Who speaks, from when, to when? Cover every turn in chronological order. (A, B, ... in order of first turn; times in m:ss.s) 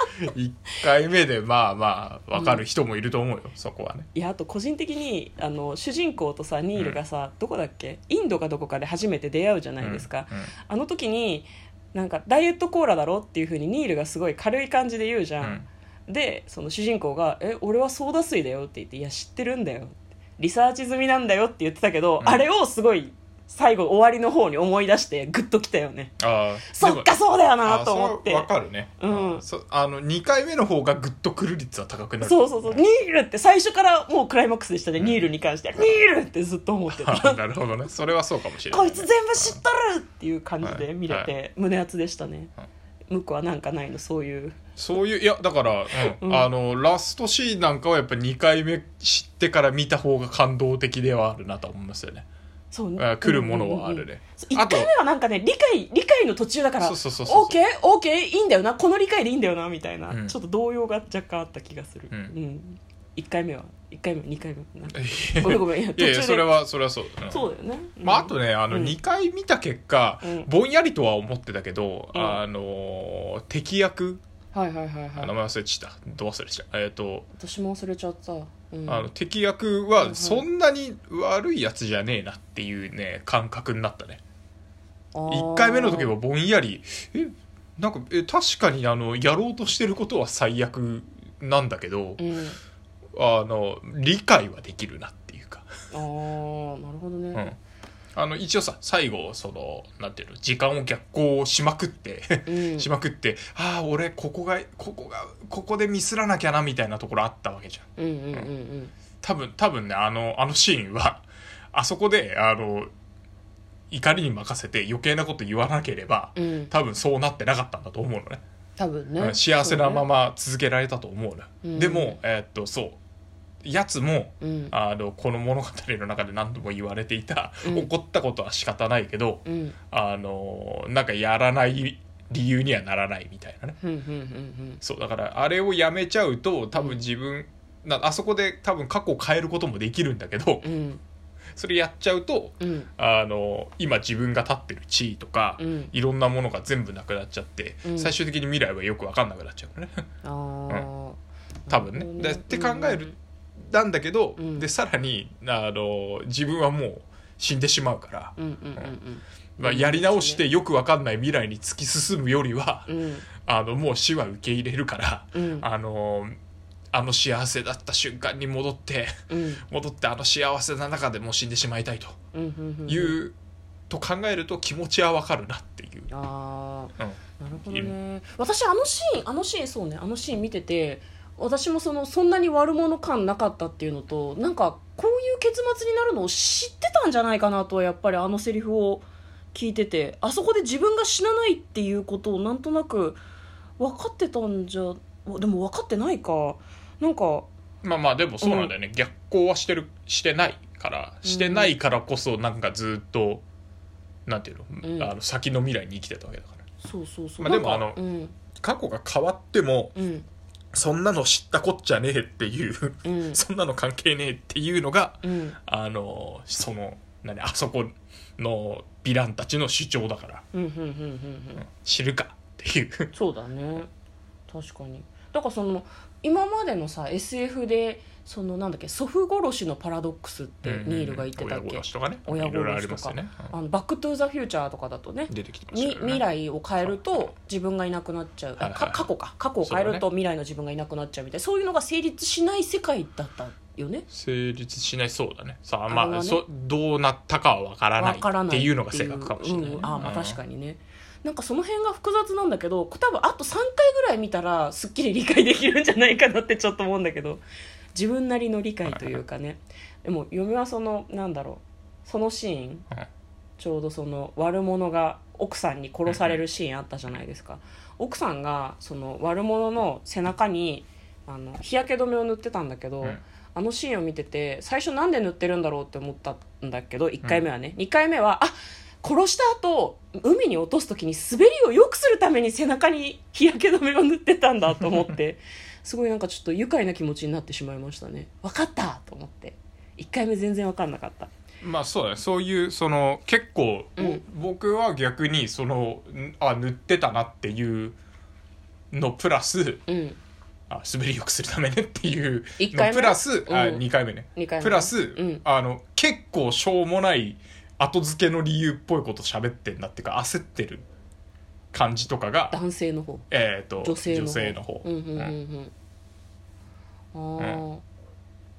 0:00.2-0:04.1 A
0:02.3-0:02.6 B
0:04.2-0:26.1 B
0:09.8-0:10.5 A
0:15.4-0:15.7 A
0:26.2-0:32.8 A
0:26.7-0:29.4 B
0:32.2-0:37.4 B
0:35.0-0:35.2 A
0:36.9-0:39.6 A
0:38.7-0:42.5 B
0:40.6-0:41.3 A
0:43.1-0:44.6 B
0:44.8-0:52.3 A
0:46.0-0:46.5 B
0:52.7-1:06.6 B
0:53.0-0:54.9 A
0:56.8-0:57.6 A
1:00.1-1:00.4 A
1:04.9-1:07.5 A
1:07.3-1:09.0 B
1:08.0-1:14.2 A
1:10.2-1:10.5 B
1:12.1-1:12.4 B
1:14.5-1:15.3 B
1:15.2-1:17.3 A
1:17.4-1:19.1 B
1:18.9-1:24.2 A
1:20.0-1:20.4 B
1:25.2-1:26.1 B
1:25.3-1:32.2 A
1:32.2-1:32.6 B
1:33.2-1:35.7 A
1:35.9-1:37.5 B
1:38.2-1:48.5 A
1:42.5-1:42.9 B
1:48.0-1:48.9 B
1:49.2-1:52.9 A
1:53.9-1:58.4 A
1:56.4-1:56.7 B
1:58.8-2:00.1 B
1:59.2-2:03.0 A
2:01.6-2:02.2 B
2:03.6-2:13.8 A
2:04.4-2:04.7 B
2:07.6-2:07.9 B
2:09.5-2:09.8 B
2:13.8-2:14.8 B
2:14.8-2:20.7 A
2:20.6-2:21.0 B
2:21.6-2:30.0 A
2:22.6-2:22.9 B
2:25.6-2:25.9 B
2:27.8-2:28.1 B
2:30.2-2:33.2 B
2:31.7-2:38.9 A
2:34.4-2:34.7 B
2:38.4-2:40.4 B
2:39.6-2:42.9 A
2:42.9-2:43.3 B
2:43.4-2:46.4 A
2:45.3-2:45.6 B
2:46.9-2:49.1 A
2:49.3-2:49.6 B
2:49.7-2:52.2 A
2:52.3-2:53.2 B
2:52.9-2:53.3 A
2:53.9-2:56.1 A
2:56.1-3:13.2 B
2:57.0-2:57.9 A
3:13.8-3:17.5 B
3:17.8-3:23.4 A
3:18.4-3:18.7 B
3:21.2-3:21.7 B
3:24.3-3:26.6 A
3:24.8-3:25.1 B
3:26.8-3:28.3 B
3:27.4-3:28.0 A
3:28.6-3:30.0 A
3:30.0-3:30.2 B
3:30.7-3:40.4 A
3:33.0-3:33.4 B
3:35.2-3:35.6 B
3:40.5-3:41.6 B
3:41.6-3:43.1 A
3:43.1-3:43.9 B
3:44.5-4:04.1 B
3:50.6-3:53.5 A
3:55.3-3:56.2 A
3:56.8-3:57.3 A
3:58.6-3:59.1 A
3:59.6-4:00.0 A
4:04.1-4:10.4 A
4:05.9-4:06.4 B
4:08.0-4:17.4 B
4:17.9-4:22.9 B
4:18.9-4:19.2 A
4:23.6-4:51.3 B
4:26.1-4:26.4 A
4:51.6-4:58.0 A
4:54.0-4:54.2 B
4:58.9-4:59.8 A
4:59.9-5:00.2 B
5:00.7-5:10.9 A
5:02.6-5:03.8 B
5:04.4-5:05.4 B
5:11.7-5:12.6 A
5:12.5-5:13.3 B
5:13.3-5:15.3 A
5:13.8-5:15.7 B
5:17.1-5:17.8 B